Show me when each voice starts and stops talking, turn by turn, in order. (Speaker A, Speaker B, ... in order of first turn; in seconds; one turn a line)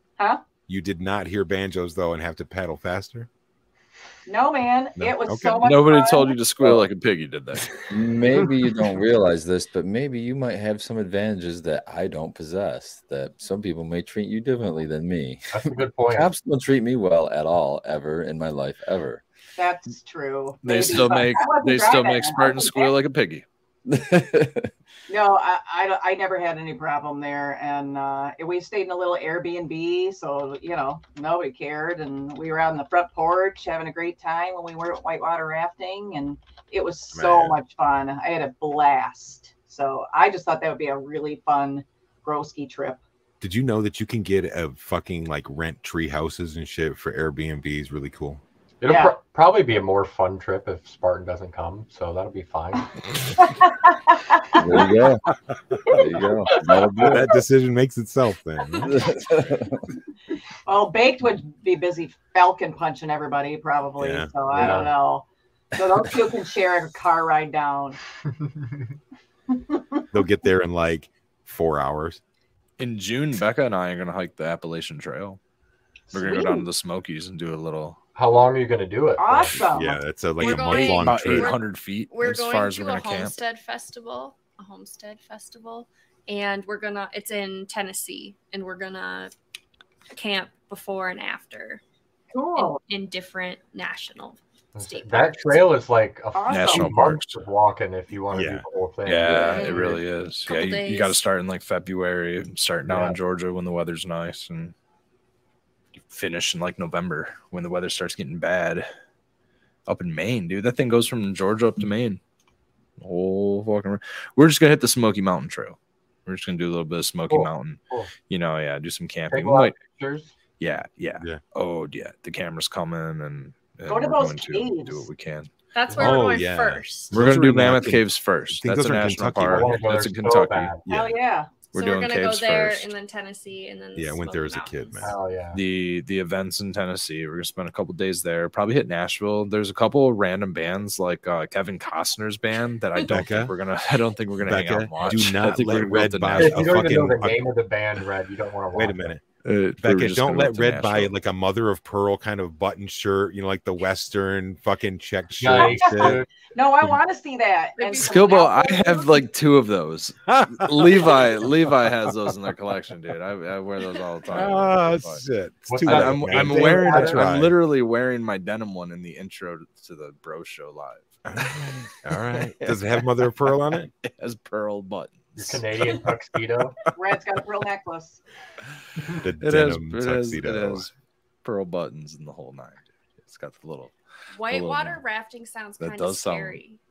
Speaker A: 0.7-3.3
Speaker B: 4.3-6.4
Speaker A: 5.0-5.7
Speaker C: 5.6-7.7
Speaker D: 7.9-19.2
Speaker E: 15.5-16.3
Speaker B: 19.6-22.9
Speaker C: 20.6-23.4
Speaker D: 23.9-24.7
Speaker B: 25.1-43.0
Speaker A: 37.1-37.6
Speaker A: 43.4-48.4
Speaker E: 48.8-53.0
Speaker B: 48.9-49.2
Speaker B: 53.4-54.6
Speaker D: 54.5-55.2
Speaker D: 55.9-57.3
Speaker A: 57.0-59.1
Speaker D: 58.8-59.8
Speaker B: 60.7-68.0
Speaker A: 64.0-64.8
Speaker E: 64.5-64.9
Speaker E: 68.4-68.7
Speaker A: 70.1-72.2
Speaker C: 72.8-75.4
Speaker B: 76.1-76.7
Speaker C: 76.1-78.0
Speaker E: 78.2-79.6
Speaker B: 79.2-81.0
Speaker A: 79.5-81.6
Speaker F: 80.4-89.3
Speaker C: 80.8-83.4
Speaker F: 90.1-91.8
Speaker B: 92.3-92.8
Speaker F: 92.6-95.7
Speaker E: 94.8-100.0
Speaker B: 96.3-96.9
Speaker C: 96.5-97.4
Speaker A: 98.3-98.6
Speaker C: 99.1-104.7
Speaker F: 99.4-101.2
Speaker E: 102.9-103.2
Speaker C: 106.0-108.9
Speaker C: 109.9-112.2
Speaker C: 113.0-119.8
Speaker E: 117.3-118.1
Speaker E: 119.3-120.3
Speaker C: 120.6-125.5
Speaker B: 123.9-125.1
Speaker F: 125.7-127.1
Speaker A: 125.9-129.8
Speaker C: 127.1-130.7
Speaker E: 129.5-130.9
Speaker A: 130.8-131.2
Speaker B: 130.9-131.5
Speaker C: 131.7-132.9
Speaker F: 131.7-135.2
Speaker A: 133.9-135.1
Speaker E: 135.0-135.6
Speaker C: 135.5-146.8
Speaker A: 143.0-143.5
Speaker A: 144.4-147.4
Speaker E: 145.1-145.8
Speaker E: 146.4-149.1
Speaker A: 148.7-149.2
Speaker C: 149.4-151.1
Speaker A: 149.8-156.2
Speaker E: 155.3-156.3
Speaker B: 155.6-155.9
Speaker B: 156.5-158.7
Speaker F: 157.8-159.2
Speaker C: 158.0-165.2
Speaker A: 160.3-161.5
Speaker A: 162.1-162.3
Speaker A: 164.3-167.6
Speaker E: 165.7-167.2
Speaker C: 165.8-176.1
Speaker A: 171.3-173.9
Speaker E: 175.4-176.8
Speaker B: 176.9-178.2
Speaker A: 179.2-180.9
Speaker C: 179.4-180.9
Speaker C: 181.4-185.0
Speaker F: 184.3-186.8
Speaker C: 185.8-186.6